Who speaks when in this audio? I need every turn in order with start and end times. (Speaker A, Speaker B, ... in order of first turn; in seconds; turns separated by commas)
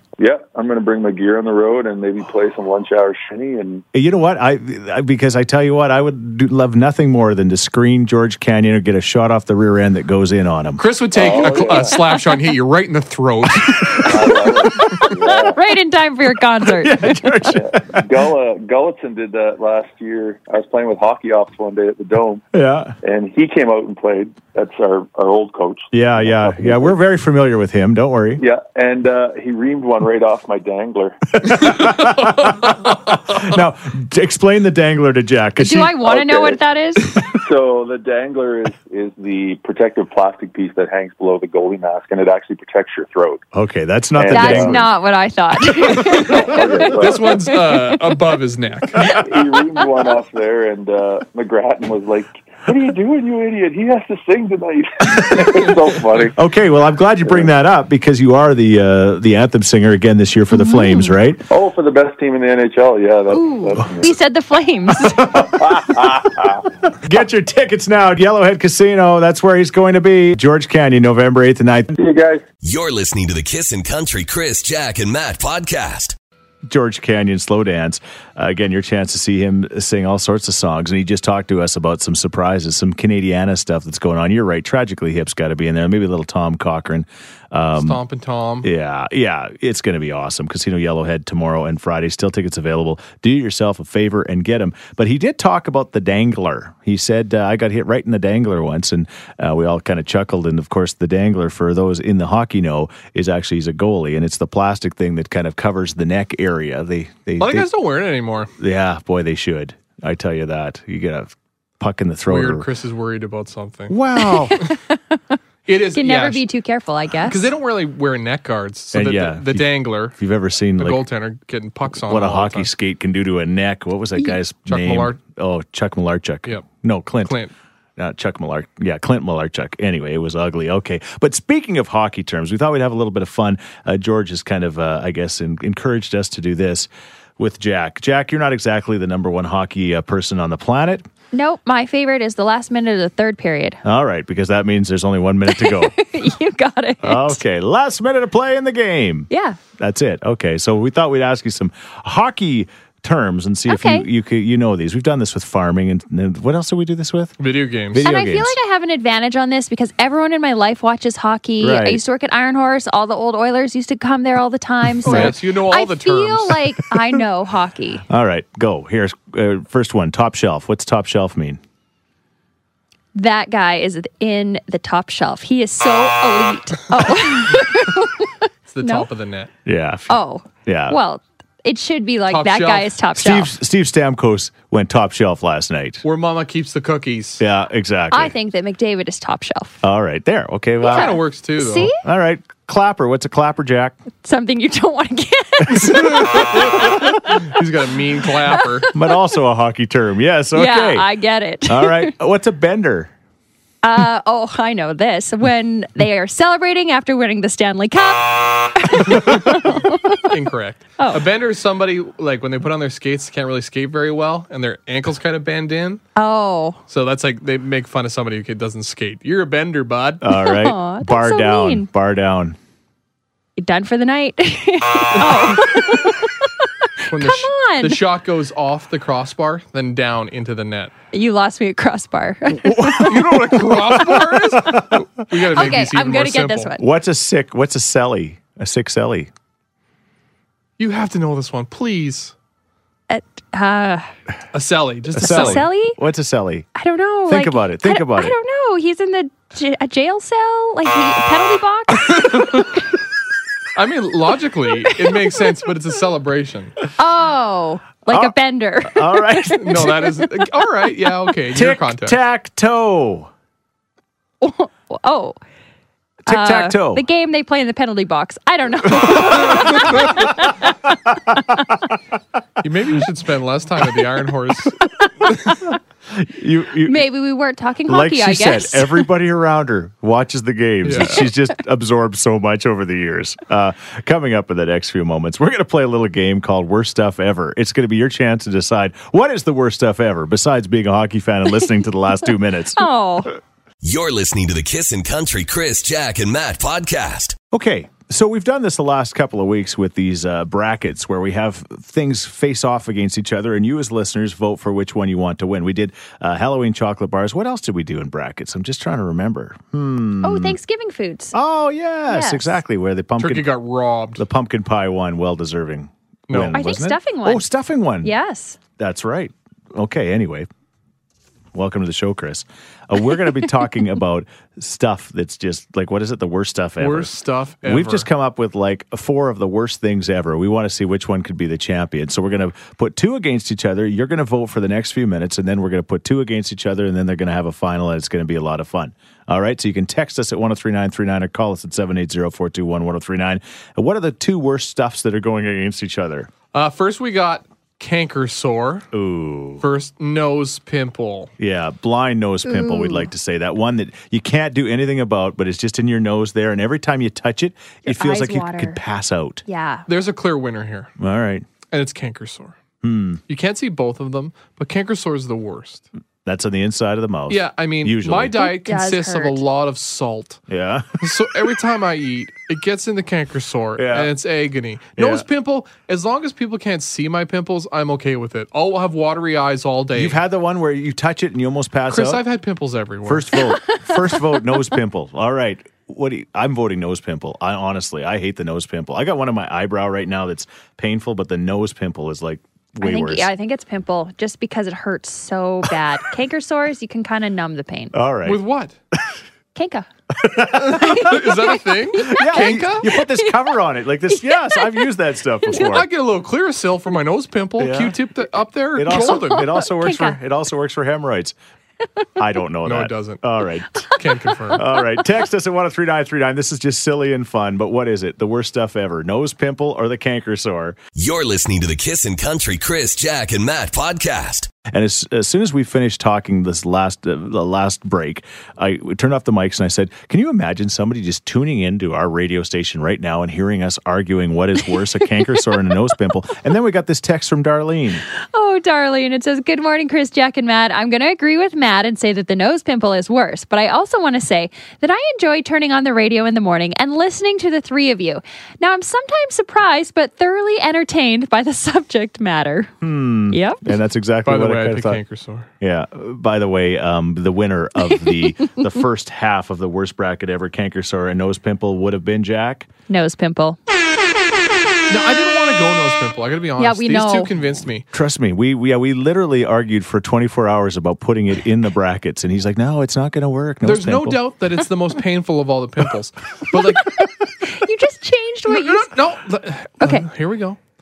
Speaker A: 0.2-3.8, Speaker B: 3.9-10.8, Speaker C: 10.8-14.1, Speaker A: 11.1-12.0, Speaker A: 14.0-15.6, Speaker D: 14.7-17.3, Speaker B: 16.6-18.0, Speaker A: 17.5-22.4, Speaker B: 22.5-22.9, Speaker A: 23.0-26.9, Speaker B: 25.9-28.4, Speaker A: 28.4-31.8, Speaker B: 31.4-36.0, Speaker C: 32.2-32.5, Speaker D: 35.6-37.2, Speaker A: 36.0-36.6, Speaker A: 37.3-43.5, Speaker B: 43.5-44.9, Speaker A: 44.2-44.9, Speaker D: 44.3-48.0, Speaker A: 45.9-47.4, Speaker C: 47.0-49.0, Speaker A: 49.0-56.4, Speaker D: 49.8-50.1, Speaker B: 56.3-61.4, Speaker D: 60.5-61.1, Speaker A: 61.5-64.1, Speaker D: 63.3-65.4, Speaker B: 65.2-65.7, Speaker A: 65.3-66.7, Speaker B: 67.0-71.9, Speaker A: 72.0-72.4, Speaker E: 72.6-76.2, Speaker B: 76.7-88.0, Speaker C: 87.8-88.7, Speaker B: 88.6-107.7, Speaker C: 107.4-108.5, Speaker B: 108.6-112.7, Speaker C: 112.3-114.0, Speaker B: 113.9-114.6, Speaker D: 114.2-115.4, Speaker C: 115.7-116.4, Speaker D: 116.0-117.5, Speaker C: 117.3-120.2, Speaker B: 118.9-121.0, Speaker C: 120.8-122.7, Speaker B: 121.9-127.4, Speaker C: 124.7-125.2, Speaker C: 127.2-127.5, Speaker B: 128.0-141.1, Speaker D: 141.3-143.8, Speaker B: 143.8-146.1, Speaker D: 145.5-147.4, Speaker B: 147.0-157.4, Speaker D: 149.3-149.6, Speaker D: 153.7-154.1, Speaker C: 157.4-158.1, Speaker B: 157.9-158.6, Speaker D: 158.0-168.0, Speaker B: 161.6-162.0, Speaker B: 165.0-165.4, Speaker C: 165.1-166.6, Speaker B: 168.1-171.6, Speaker D: 173.2-179.1, Speaker C: 178.7-179.5, Speaker B: 179.7-181.0, Speaker D: 180.1-183.5, Speaker C: 182.3-183.0, Speaker B: 183.2-186.0, Speaker C: 186.0-187.4, Speaker B: 187.4-188.3, Speaker D: 188.1-189.8, Speaker B: 189.8-191.2, Speaker D: 190.8-192.0, Speaker C: 190.8-191.9, Speaker B: 192.0-194.0, Speaker D: 194.2-197.4, Speaker B: 195.7-196.8, Speaker C: 195.8-198.9, Speaker D: 198.5-198.9, Speaker B: 198.9-201.1, Speaker D: 200.5-202.1, Speaker B: 201.7-203.1, Speaker D: 203.8-210.2, Speaker C: 209.1-209.6, Speaker C: 210.2-216.0, Speaker D: 216.2-216.8, Speaker C: 216.9-220.2, Speaker B: 220.2-222.6, Speaker D: 220.3-221.9, Speaker D: 223.6-228.0, Speaker C: 227.1-230.9, Speaker D: 231.1-233.1, Speaker B: 232.7-235.0, Speaker C: 232.9-236.7, Speaker D: 235.5-236.8, Speaker B: 236.8-239.3, Speaker C: 240.8-242.3, Speaker D: 243.1-244.1, Speaker C: 244.5-245.7, Speaker B: 245.2-246.7, Speaker D: 245.2-246.0, Speaker D: 246.8-252.8, Speaker B: 247.3-248.4, Speaker C: 252.1-252.7, Speaker C: 253.8-256.8, Speaker D: 257.0-260.0, Speaker B: 258.1-260.2, Speaker C: 259.6-262.2, Speaker B: 261.5-263.3, Speaker D: 264.4-265.4, Speaker B: 266.2-267.0, Speaker D: 266.3-271.6, Speaker B: 269.0-270.0, Speaker B: 271.3-271.7, Speaker C: 272.6-274.8, Speaker C: 275.3-275.5, Speaker B: 276.1-277.1, Speaker D: 276.9-279.1, Speaker B: 277.9-292.9, Speaker C: 280.8-281.3, Speaker D: 292.8-293.3, Speaker E: 293.8-297.4, Speaker B: 297.5-310.6, Speaker D: 310.2-311.4, Speaker B: 311.3-313.5, Speaker D: 312.1-312.6, Speaker C: 313.2-314.2, Speaker B: 314.2-318.1, Speaker C: 316.3-316.6, Speaker D: 316.5-317.4, Speaker D: 318.0-318.6, Speaker B: 318.8-320.5, Speaker B: 321.5-346.3, Speaker C: 326.8-328.1, Speaker C: 346.5-348.9, Speaker B: 348.9-349.6, Speaker C: 349.6-351.3, Speaker B: 351.4-359.4, Speaker D: 352.5-353.1, Speaker D: 357.9-358.8, Speaker D: 359.5-359.9, Speaker C: 359.9-360.9, Speaker B: 361.0-361.5, Speaker C: 361.7-362.6, Speaker B: 362.8-363.2, Speaker C: 363.3-365.9, Speaker B: 366.2-368.4, Speaker C: 367.3-370.4, Speaker D: 368.4-369.4, Speaker B: 370.5-371.1, Speaker C: 371.0-380.2, Speaker B: 373.8-374.1, Speaker B: 375.0-375.3, Speaker B: 379.9-382.2, Speaker C: 381.9-383.3, Speaker B: 383.1-393.3, Speaker D: 383.6-384.5, Speaker D: 392.8-397.9, Speaker B: 397.9-398.4, Speaker C: 398.2-398.8, Speaker D: 399.6-399.9, Speaker B: 400.2-405.9, Speaker C: 400.5-402.9, Speaker D: 400.7-403.4, Speaker D: 404.1-404.8, Speaker D: 405.5-405.8, Speaker C: 405.5-409.5, Speaker B: 407.6-408.0, Speaker B: 408.7-411.4, Speaker D: 408.9-410.2, Speaker B: 412.2-413.9, Speaker C: 412.6-413.2, Speaker C: 414.0-414.6, Speaker B: 414.5-420.8, Speaker E: 421.0-424.5, Speaker B: 424.6-438.0, Speaker D: 438.2-452.7, Speaker B: 452.8-455.0, Speaker D: 453.3-453.6, Speaker C: 454.2-455.5, Speaker B: 455.6-462.7, Speaker D: 462.9-463.6, Speaker C: 464.9-467.9, Speaker D: 466.6-467.3, Speaker B: 467.9-474.2, Speaker C: 473.6-477.0, Speaker D: 476.6-478.9, Speaker C: 478.5-480.6, Speaker D: 479.8-480.1